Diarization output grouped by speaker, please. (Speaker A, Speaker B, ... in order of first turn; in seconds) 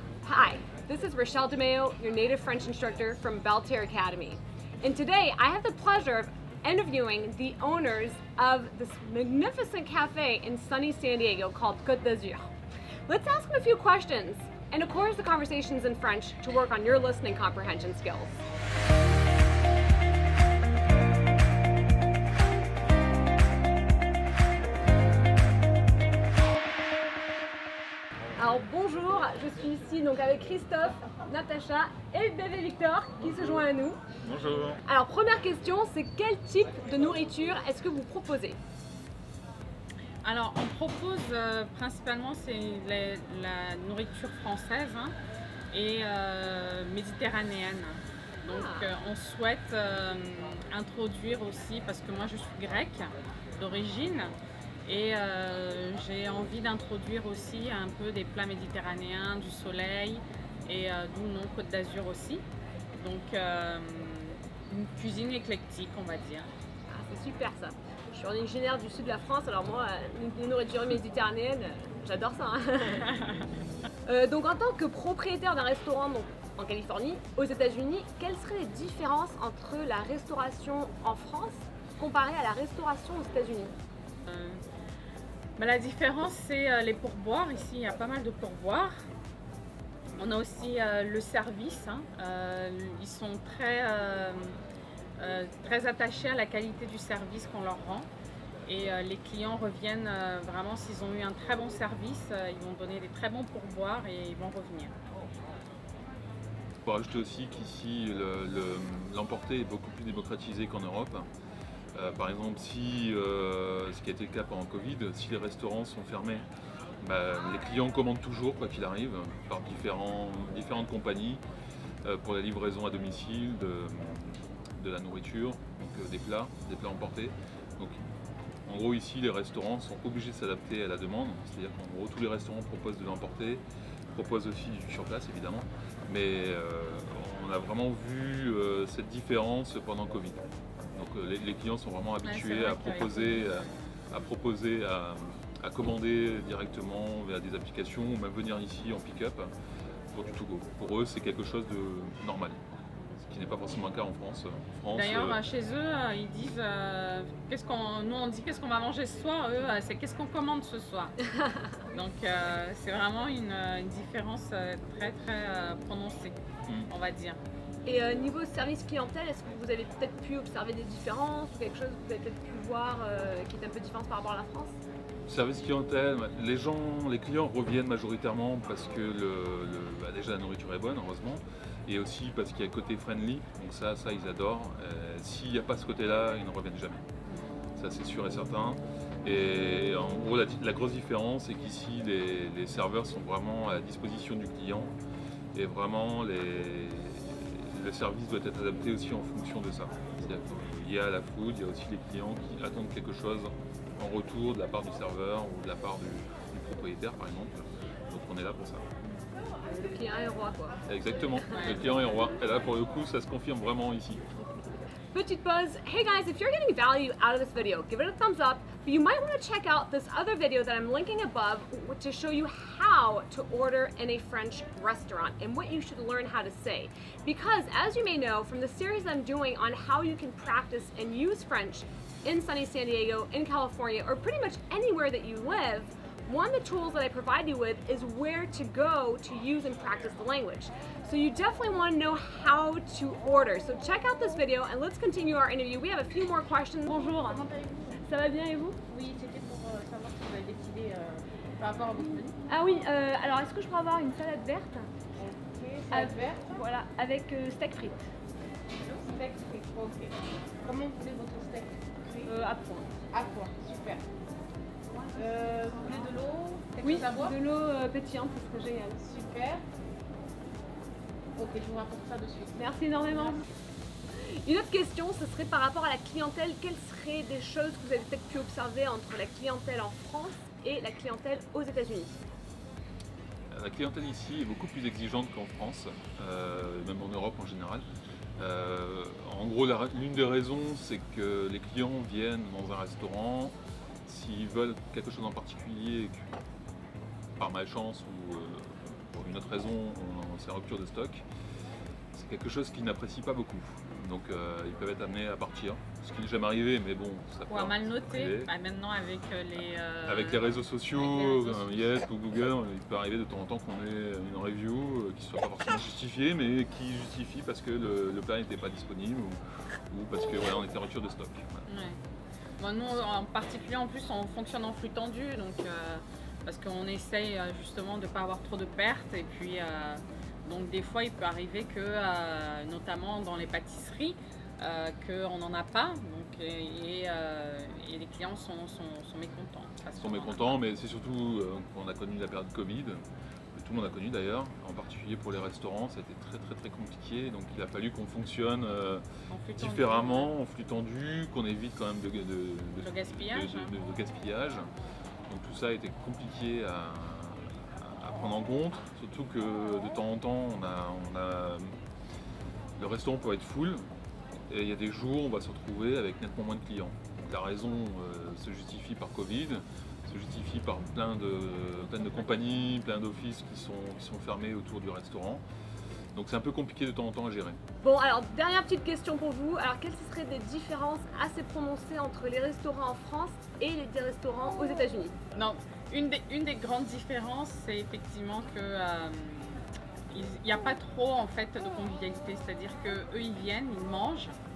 Speaker A: 0.2-12.5, 13.1-18.4, 28.3-34.0, 34.9-38.6, 48.5-48.9, 66.9-73.1, 74.0-83.7, 161.3-161.8, 167.8-174.8, 209.7-210.8, 215.1-247.4, 248.0-248.8, 252.5-255.1, 255.9-258.1, 262.2-262.9, 266.8-269.0, 272.5-273.5, 274.1-282.2, 377.8-385.2
Speaker B: 34.2-34.8, 106.8-111.3, 111.9-116.5, 117.0-121.4, 122.0-128.0, 128.7-149.5, 150.1-152.6, 153.2-155.4, 175.3-187.1, 187.8-194.9, 195.5-208.8, 210.8-214.3, 283.5-287.8, 288.4-296.3, 297.4-301.2, 302.1-308.5, 310.0-319.4, 319.9-321.6, 340.0-343.0, 343.5-349.0, 349.6-354.7, 355.3-361.8, 362.8-363.9, 364.5-375.4, 376.1-377.6
Speaker C: 40.2-45.1, 45.7-54.3, 54.9-62.4, 62.9-66.5, 84.3-84.6, 85.6-88.9, 90.2-94.6, 95.2-98.1, 98.7-104.9, 142.2-144.2, 154.9-161.1, 161.9-167.4, 187.3-187.6, 211.5-212.0, 307.5-311.9, 321.7-322.0, 322.6-340.6, 349.3-350.3, 352.8-353.8, 371.9-372.3, 385.3-394.4
Speaker D: 247.0-248.0, 248.9-252.3, 255.2-256.6, 258.8-262.4, 263.1-264.0, 265.1-267.4, 269.0-269.6, 271.4-272.6